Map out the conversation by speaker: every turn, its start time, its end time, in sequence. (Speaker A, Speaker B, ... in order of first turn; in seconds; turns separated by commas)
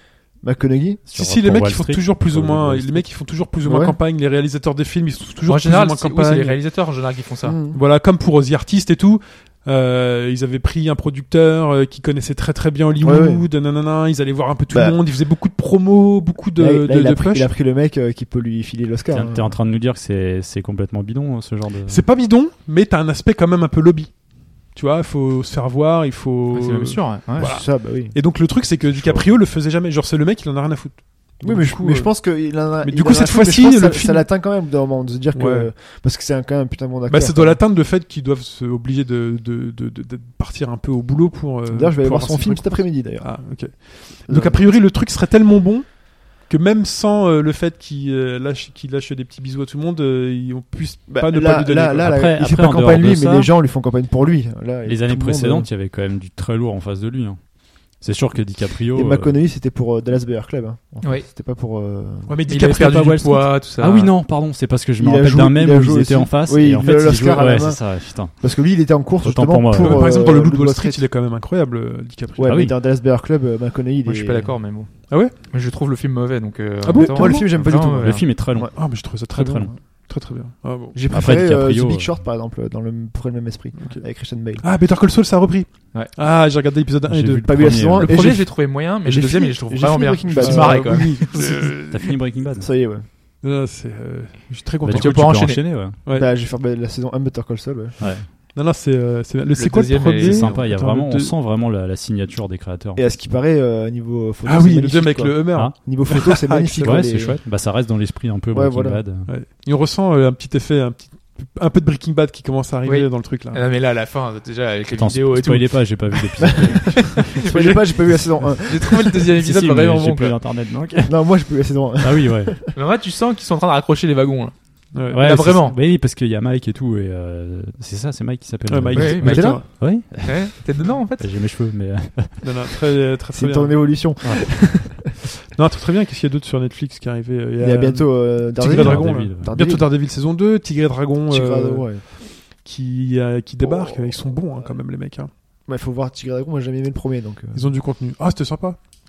Speaker A: 0.4-1.0, Speaker B: 1.1-3.1, Speaker C: 1.1-6.6, Speaker A: 3.6-4.0, Speaker D: 5.5-7.6, Speaker A: 7.4-7.8, Speaker C: 7.7-17.5, Speaker A: 13.0-13.4, Speaker A: 14.7-15.0, Speaker A: 16.6-19.6, Speaker B: 19.1-22.1, Speaker C: 21.9-34.3, Speaker D: 26.5-27.5, Speaker A: 27.4-28.2, Speaker A: 31.4-37.6, Speaker C: 35.3-35.7, Speaker C: 37.1-52.2, Speaker A: 41.7-43.7, Speaker A: 44.3-44.7, Speaker A: 51.1-55.7, Speaker B: 52.0-53.5, Speaker B: 54.8-59.4, Speaker A: 58.9-62.4, Speaker C: 62.3-63.5, Speaker D: 62.5-64.1, Speaker B: 63.6-68.5, Speaker A: 65.0-71.0, Speaker B: 69.2-70.2, Speaker C: 69.7-72.5, Speaker A: 72.4-74.5, Speaker B: 72.5-72.7, Speaker D: 74.0-78.3, Speaker C: 75.1-75.3, Speaker C: 76.8-77.5, Speaker A: 76.9-78.7, Speaker B: 77.8-79.7, Speaker C: 78.7-81.0, Speaker A: 80.9-84.7, Speaker B: 81.1-82.1, Speaker C: 83.8-88.1, Speaker B: 87.1-88.2, Speaker A: 87.4-91.2, Speaker D: 88.0-91.7, Speaker C: 90.4-92.2, Speaker B: 91.9-92.7, Speaker A: 92.6-93.0, Speaker C: 93.4-96.3, Speaker B: 94.8-96.0, Speaker D: 94.9-95.6, Speaker A: 96.1-98.0, Speaker B: 98.0-98.3, Speaker C: 98.5-101.3, Speaker D: 99.5-100.6, Speaker B: 100.2-103.0, Speaker A: 103.0-107.4, Speaker C: 104.4-107.2, Speaker B: 106.8-109.3, Speaker A: 108.5-109.0, Speaker C: 109.2-113.6, Speaker D: 112.8-117.9, Speaker B: 114.9-117.4, Speaker A: 116.6-119.2, Speaker D: 118.7-120.4, Speaker B: 119.4-122.5, Speaker A: 121.0-122.7, Speaker D: 122.7-125.8, Speaker C: 124.9-125.2, Speaker B: 125.1-130.7, Speaker C: 128.7-129.6, Speaker D: 128.9-131.3, Speaker A: 128.9-129.6, Speaker B: 131.2-132.7, Speaker C: 132.4-134.1, Speaker A: 133.3-135.1, Speaker B: 134.2-135.0, Speaker C: 135.5-145.3, Speaker A: 137.6-139.9, Speaker B: 138.6-139.6, Speaker A: 141.3-142.0, Speaker A: 143.6-144.1, Speaker A: 145.7-147.8, Speaker C: 147.5-148.8